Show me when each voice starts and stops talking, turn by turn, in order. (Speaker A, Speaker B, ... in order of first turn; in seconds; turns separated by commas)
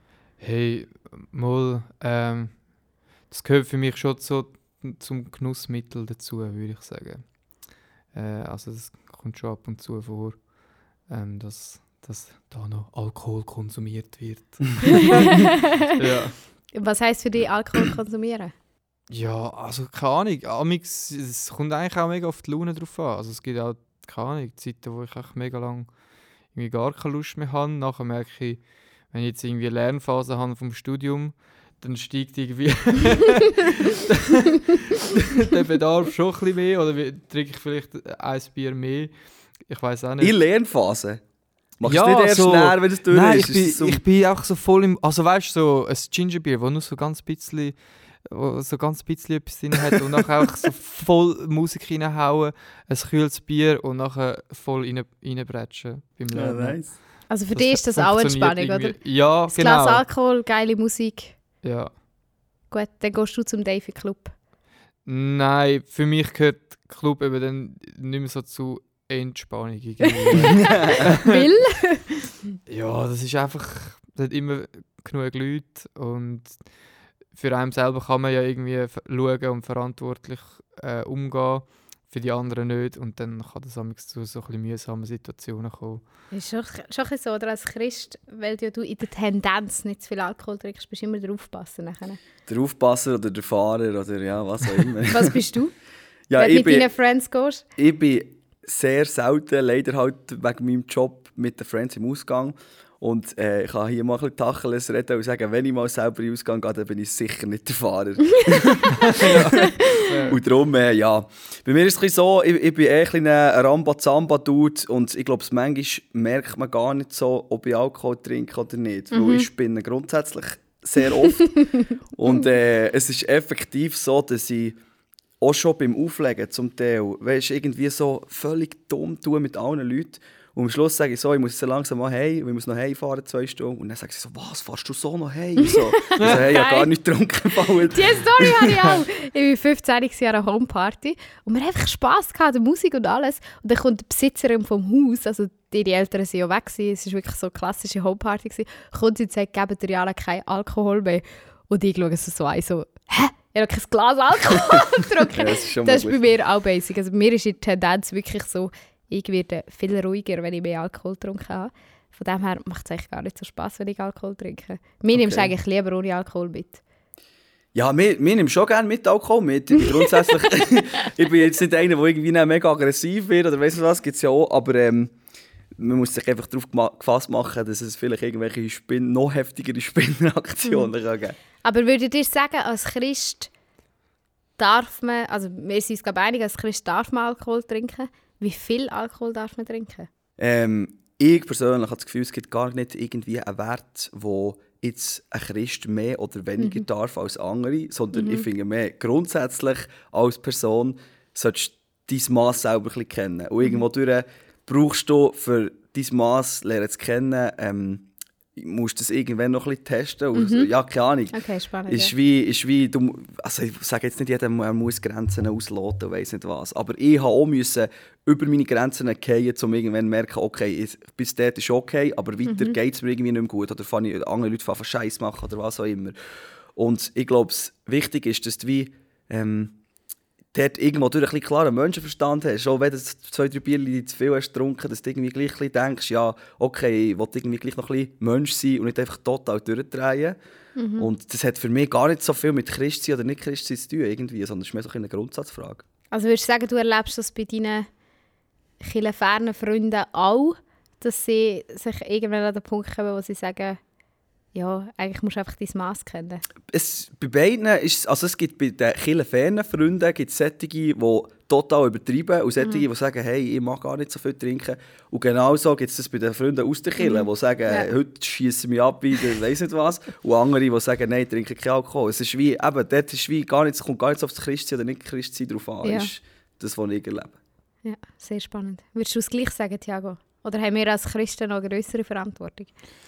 Speaker A: 0.4-16.5, Speaker B: 16.7-18.5, Speaker A: 19.1-40.3, Speaker C: 40.2-41.2, Speaker C: 41.8-44.0, Speaker A: 41.8-60.0, Speaker C: 56.3-57.0, Speaker B: 57.3-61.4, Speaker A: 61.6-62.0, Speaker B: 62.7-64.3, Speaker A: 65.0-71.4, Speaker C: 70.5-71.0, Speaker B: 70.9-72.4, Speaker A: 72.7-86.1, Speaker B: 86.3-92.2, Speaker C: 92.5-95.4, Speaker B: 95.1-95.7, Speaker C: 96.3-96.9, Speaker B: 96.4-97.6, Speaker C: 97.8-124.8, Speaker A: 109.0-110.4, Speaker B: 109.6-110.3, Speaker B: 119.1-119.5, Speaker C: 125.4-138.9, Speaker B: 136.0-136.8, Speaker A: 136.2-136.6, Speaker B: 137.8-166.8, Speaker C: 155.3-156.2, Speaker C: 165.1-165.5, Speaker C: 167.7-175.1, Speaker C: 175.8-181.3, Speaker B: 181.6-183.5, Speaker B: 184.6-190.1, Speaker C: 190.4-226.1, Speaker B: 196.6-196.8, Speaker B: 198.1-198.4, Speaker B: 210.3-210.7, Speaker B: 211.3-212.1, Speaker B: 222.5-222.8, Speaker C: 226.8-229.7, Speaker C: 230.5-240.4, Speaker B: 240.8-241.1, Speaker C: 241.0-245.8, Speaker B: 246.1-247.9, Speaker B: 248.8-253.8, Speaker B: 254.5-256.4, Speaker C: 256.7-277.4, Speaker B: 267.0-267.9, Speaker B: 275.8-276.1, Speaker B: 277.8-282.7